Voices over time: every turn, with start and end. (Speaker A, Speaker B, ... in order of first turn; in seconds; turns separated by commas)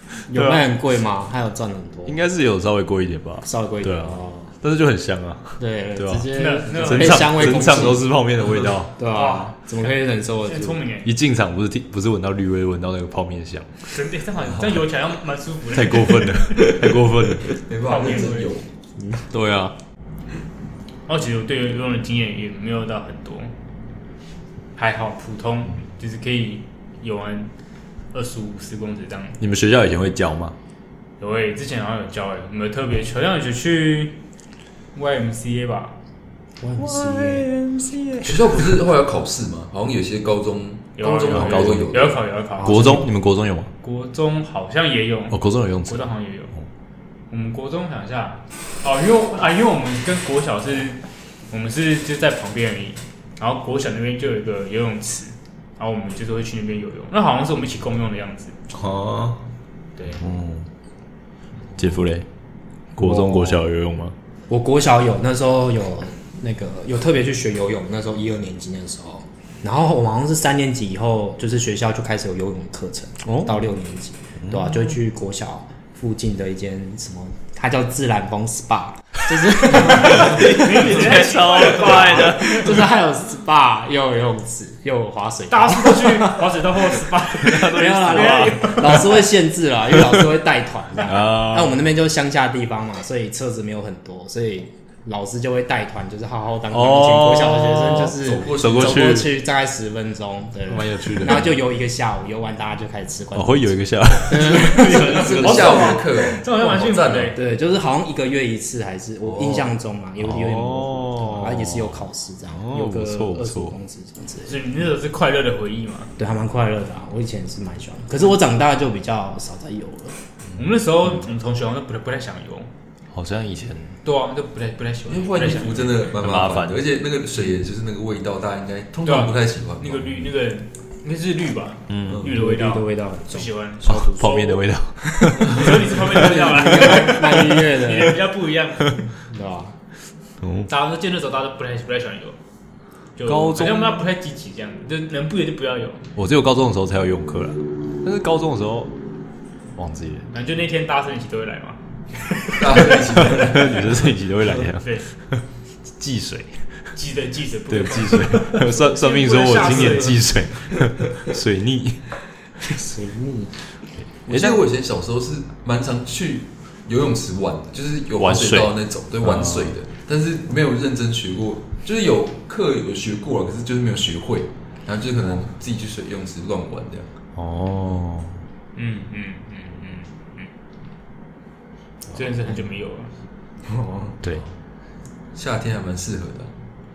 Speaker A: 0.3-2.2, Speaker B: 0.3-0.6, Speaker C: 2.0-8.9, Speaker A: 3.4-4.5, Speaker A: 5.6-8.1, Speaker B: 6.3-7.9, Speaker A: 9.0-10.8, Speaker B: 9.1-11.1, Speaker C: 11.0-13.8, Speaker B: 13.8-16.7, Speaker C: 15.7-17.6, Speaker D: 17.6-18.7, Speaker B: 17.8-18.6, Speaker A: 19.0-19.2, Speaker C: 19.3-19.7, Speaker B: 21.1-23.5, Speaker B: 24.8-27.5, Speaker B: 28.1-29.4, Speaker C: 29.4-30.6, Speaker B: 31.2-34.1, Speaker B: 34.9-35.9, Speaker A: 36.6-37.5, Speaker C: 36.8-38.7, Speaker D: 38.2-42.2, Speaker B: 41.0-43.0, Speaker C: 41.3-41.9, Speaker A: 42.6-43.1, Speaker C: 42.6-43.7, Speaker B: 43.8-46.5, Speaker C: 45.3-46.1, Speaker B: 47.3-58.5, Speaker C: 58.7-59.4, Speaker B: 60.0-60.2, Speaker C: 60.1-60.7, Speaker C: 61.8-62.3, Speaker C: 62.9-64.1, Speaker A: 63.0-63.6, Speaker A: 64.5-103.7, Speaker C: 73.2-73.5, Speaker C: 74.4-74.9, Speaker C: 79.6-82.8, Speaker B: 80.1-82.7, Speaker B: 85.5-89.3, Speaker C: 87.3-89.0, Speaker C: 90.0-90.3, Speaker C: 91.0-91.8, Speaker C: 96.7-99.3, Speaker D: 98.2-99.2, Speaker C: 100.7-101.5, Speaker C: 103.3-105.8, Speaker A: 104.3-105.4, Speaker B: 104.3-107.4, Speaker D: 105.0-107.4, Speaker A: 107.3-114.6, Speaker C: 109.2-113.8, Speaker B: 114.4-116.1, Speaker A: 116.2-120.2, Speaker B: 120.5-122.7, Speaker C: 123.1-124.0, Speaker B: 124.0-126.1, Speaker D: 125.0-130.3, Speaker C: 126.2-126.8, Speaker B: 129.0-134.4, Speaker C: 131.9-132.3, Speaker A: 132.2-138.2, Speaker C: 133.8-136.1, Speaker B: 135.5-139.0, Speaker C: 136.6-137.6, Speaker A: 139.2-139.7, Speaker C: 140.4-140.7, Speaker B: 140.7-142.4, Speaker B: 143.2-146.1, Speaker C: 143.2-144.0, Speaker C: 146.2-148.9, Speaker C: 149.8-150.3, Speaker B: 150.3-153.6, Speaker D: 152.6-153.8, Speaker C: 153.2-155.4, Speaker B: 154.7-155.1, Speaker C: 156.0-156.9, Speaker B: 156.9-160.3, Speaker C: 157.7-162.0, Speaker A: 162.6-163.6, Speaker D: 164.2-177.1, Speaker C: 164.3-164.6, Speaker C: 168.2-168.7, Speaker C: 169.2-169.7, Speaker C: 177.3-178.4, Speaker B: 178.7-180.5, Speaker B: 182.1-183.1, Speaker D: 185.3-186.5